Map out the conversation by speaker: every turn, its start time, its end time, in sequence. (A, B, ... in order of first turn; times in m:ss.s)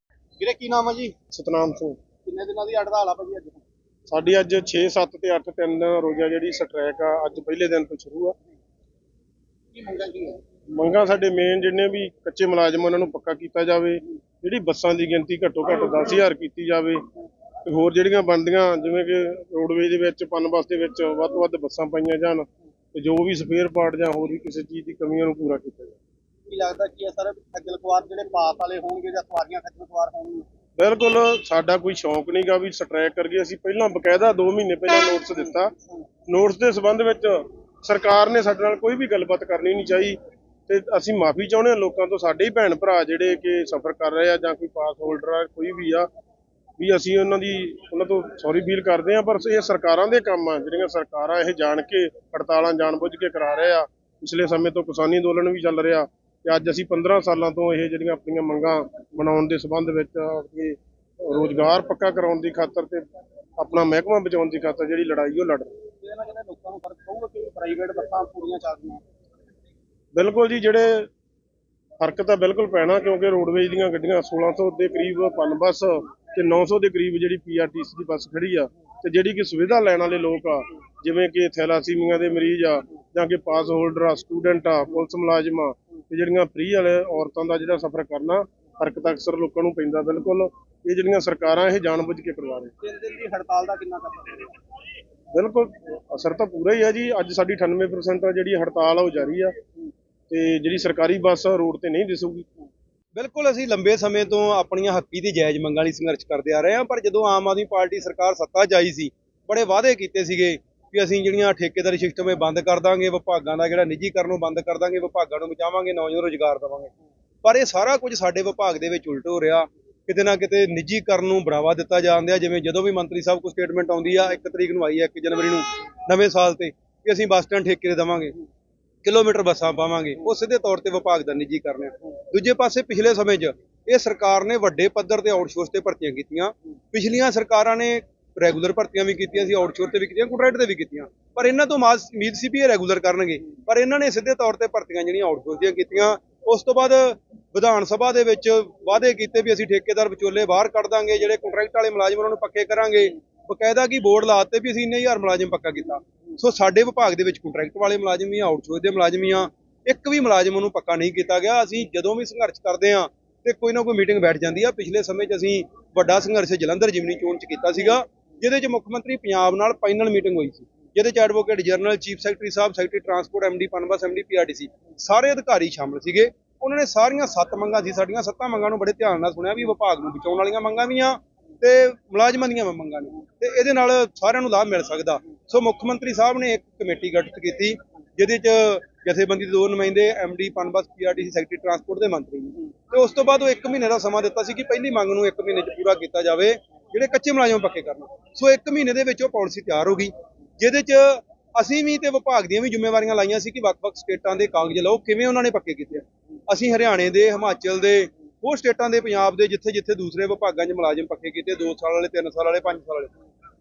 0:00.4-0:01.1 A
0:01.3-0:02.0 B
0:03.0-0:03.5 A
0:04.1-0:08.4 B
0:10.7-0:17.0 B
0:17.6-0:26.0 B
0:26.5-0:30.1 A
0:30.8-0:35.7 B
0:36.3-0:40.2 B
0:40.7-0:46.1 B
0:46.8-1:03.0 B
1:03.6-1:05.7 B
1:10.1-1:11.1 B
1:12.0-1:32.7 B
1:33.2-1:34.3 A
1:35.3-1:39.6 B
1:40.3-1:42.5 B
1:43.1-1:56.9 C
1:57.4-2:08.4 C
2:09.0-3:33.1 C